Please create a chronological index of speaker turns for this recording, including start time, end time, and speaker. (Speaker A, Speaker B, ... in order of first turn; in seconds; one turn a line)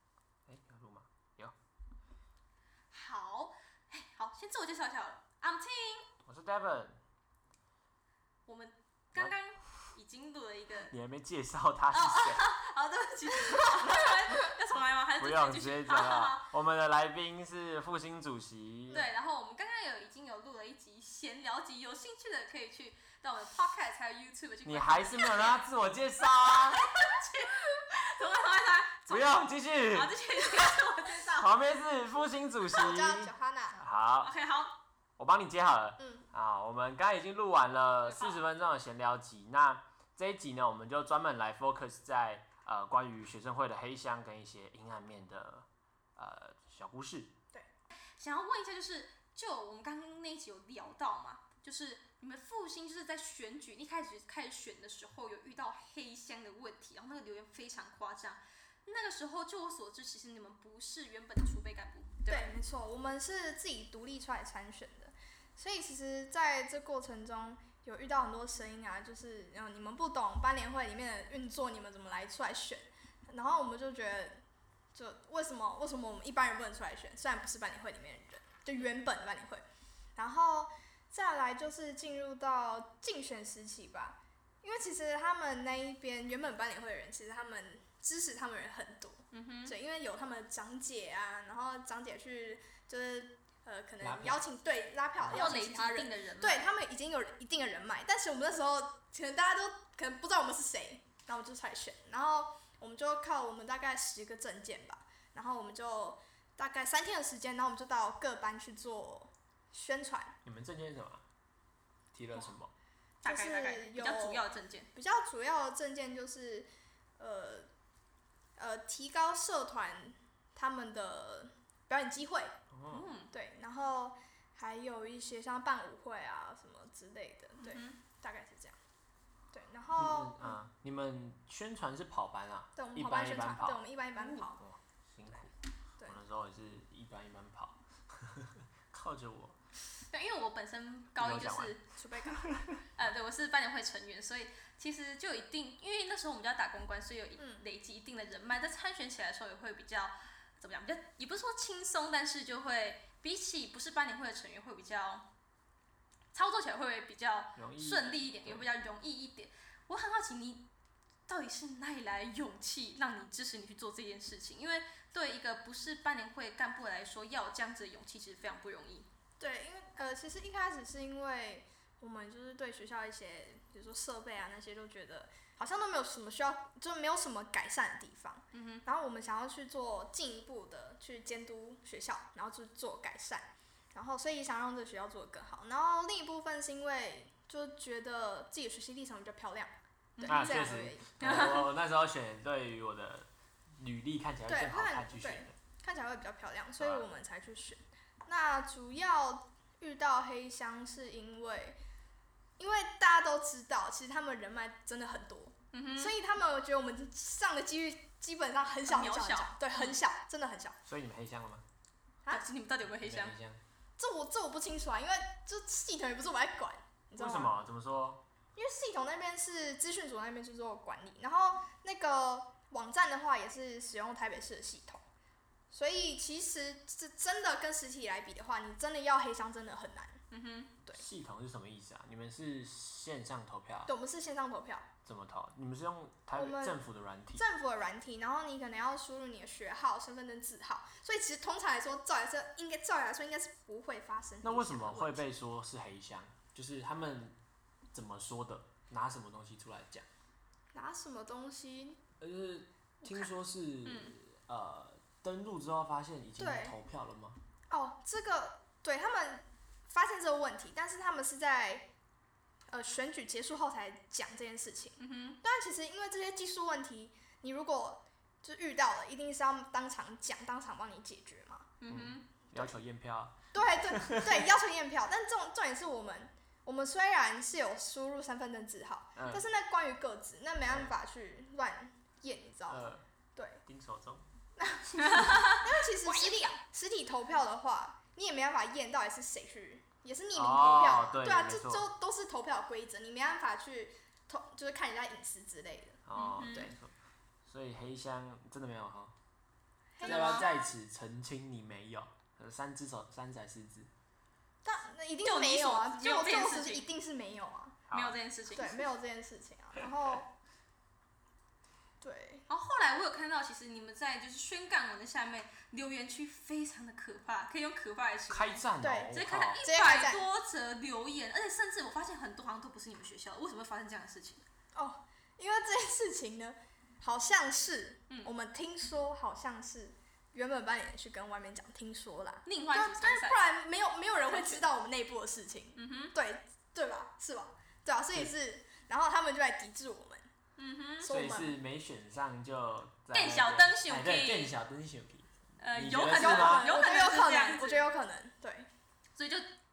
Speaker A: 0.5-1.5
Speaker B: 2.9-6.1
Speaker A: 6.2-7.0
Speaker B: 8.5-10.9
Speaker A: 10.8-12.5
Speaker B: 11.9-16.5
Speaker A: 15.2-19.1
Speaker B: 18.9-25.6
Speaker A: 24.6-26.9
Speaker B: 26.6-31.5
Speaker A: 29.1-30.1
Speaker A: 31.4-34.3
Speaker C: 32.7-33.8
Speaker B: 34.2-34.7
Speaker A: 35.2-47.3
Speaker C: 36.0-36.2
Speaker B: 38.0-38.4
Speaker B: 48.2-62.5
Speaker C: 62.3-74.4
Speaker C: 74.9-79.6
Speaker C: 80.2-110.3
Speaker B: 89.3-89.7
Speaker A: 94.0-94.4
Speaker A: 95.2-95.5
Speaker B: 95.3-96.7
Speaker A: 110.4-111.2
Speaker A: 112.1-112.7
Speaker B: 113.2-114.9
Speaker C: 113.2-117.7
Speaker C: 118.6-122.5
Speaker A: 122.7-123.1
Speaker B: 122.9-123.3
Speaker C: 123.3-128.8
Speaker B: 127.6-128.0
Speaker C: 129.5-130.6
Speaker A: 129.9-133.8
Speaker C: 132.8-134.6
Speaker B: 134.1-134.5
Speaker A: 134.6-135.5
Speaker A: 136.0-139.6
Speaker B: 140.1-141.9
Speaker A: 141.2-141.7
Speaker C: 141.9-142.6
Speaker A: 142.3-142.7
Speaker B: 142.9-155.2
Speaker C: 147.4-147.6
Speaker B: 156.3-160.6
Speaker A: 157.6-158.7
Speaker B: 161.3-169.1
Speaker C: 169.4-191.6
Speaker B: 178.5-178.8
Speaker B: 190.2-190.7
Speaker A: 190.2-193.3
Speaker B: 191.2-191.6
Speaker A: 193.8-195.5
Speaker C: 194.4-201.8
Speaker A: 196.8-197.1
Speaker C: 202.6-210.8
Speaker B: 205.7-206.1
Speaker B: 208.8-210.0
Speaker A: 210.8-211.6
Speaker B: 212.3-213.3
Speaker A: 213.0-213.6
Speaker C: 214.0-217.5
Speaker A: 217.2-218.2
Speaker C: 218.6-225.0
Speaker C: 225.7-230.2
Speaker B: 230.3-230.7
Speaker A: 230.9-233.9
Speaker C: 233.9-234.9
Speaker A: 235.0-237.4
Speaker C: 236.3-236.8
Speaker C: 237.3-245.2
Speaker A: 244.4-247.3
Speaker A: 247.9-250.1
Speaker C: 250.7-252.0
Speaker A: 252.2-257.4
Speaker B: 253.0-254.1
Speaker C: 256.4-256.8
Speaker C: 257.7-261.9
Speaker C: 262.7-271.7
Speaker B: 265.0-265.4
Speaker B: 271.8-272.3
Speaker A: 271.9-274.4
Speaker C: 273.5-283.6
Speaker A: 279.1-279.4
Speaker A: 280.7-280.9
Speaker A: 282.7-283.0
Speaker A: 283.6-284.2
Speaker C: 284.6-296.6
Speaker B: 285.0-286.5
Speaker A: 290.3-291.9
Speaker A: 296.1-296.9
Speaker B: 296.1-296.7
Speaker A: 297.4-299.1
Speaker C: 299.9-300.7
Speaker B: 300.0-300.5
Speaker A: 300.0-303.9
Speaker C: 304.6-307.8
Speaker B: 305.2-306.9
Speaker A: 307.9-308.2
Speaker B: 307.9-308.9
Speaker C: 308.5-310.3
Speaker C: 312.0-312.5
Speaker B: 312.5-324.4
Speaker A: 318.3-319.6
Speaker C: 318.8-320.3
Speaker C: 324.7-340.3
Speaker B: 332.4-333.4
Speaker B: 334.2-334.7
Speaker B: 335.7-336.1
Speaker B: 340.6-341.1
Speaker C: 341.0-341.6
Speaker A: 341.0-346.7
Speaker B: 343.1-344.5
Speaker B: 345.6-347.9
Speaker C: 346.1-348.7
Speaker B: 349.1-349.5